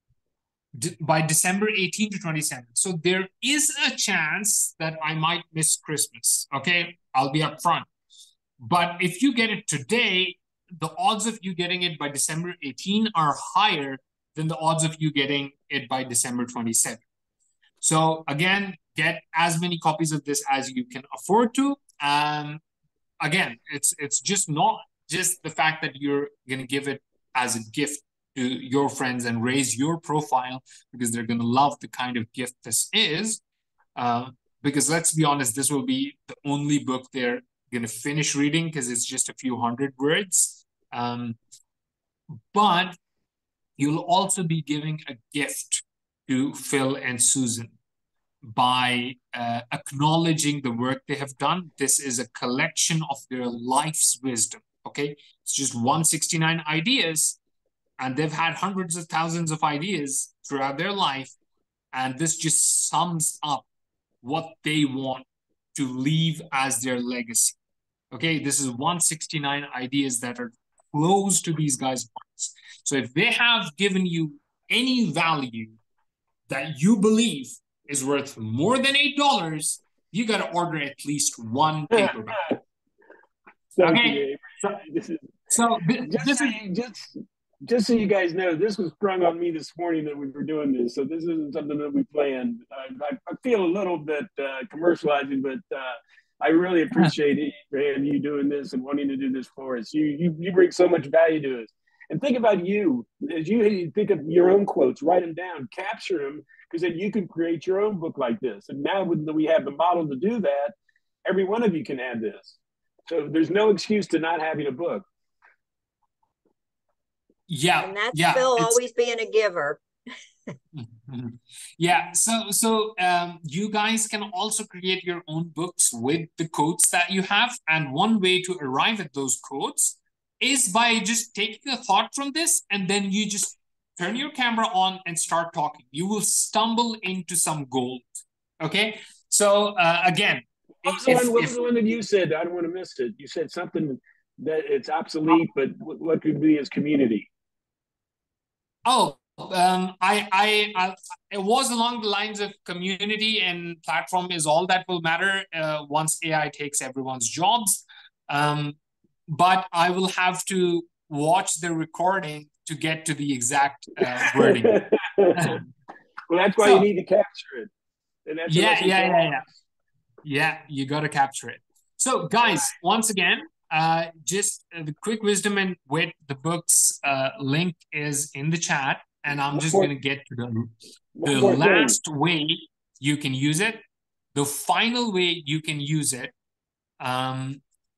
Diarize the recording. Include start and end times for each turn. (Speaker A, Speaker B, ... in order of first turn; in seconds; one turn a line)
Speaker A: 0.7-7.9
Speaker A: 8.6-17.0
Speaker A: 17.8-22.6
Speaker A: 23.2-33.4
Speaker A: 34.0-41.4
Speaker A: 42.5-43.0
Speaker A: 43.8-47.8
Speaker A: 48.4-57.4
Speaker A: 58.0-61.3
Speaker A: 61.9-63.6
Speaker A: 64.2-67.6
Speaker A: 68.1-75.8
Speaker A: 76.5-82.4
Speaker B: 81.9-82.6
Speaker B: 83.8-85.3
Speaker A: 83.8-84.8
Speaker A: 85.5-86.6
Speaker B: 86.0-112.5
Speaker B: 113.1-115.0
Speaker A: 117.5-118.8
Speaker C: 117.8-119.8
Speaker A: 120.7-141.6
Speaker B: 140.8-147.3
Speaker A: 148.8-165.6
Speaker B: 164.2-165.6
Speaker B: 166.3-167.7
Speaker A: 166.6-166.9
Speaker B: 168.2-169.4
Speaker A: 168.5-169.4
Speaker A: 170.2-180.7
Speaker B: 179.5-179.9
Speaker B: 181.2-182.0
Speaker A: 181.2-183.8
Speaker A: 184.3-186.3
Speaker A: 187.0-187.6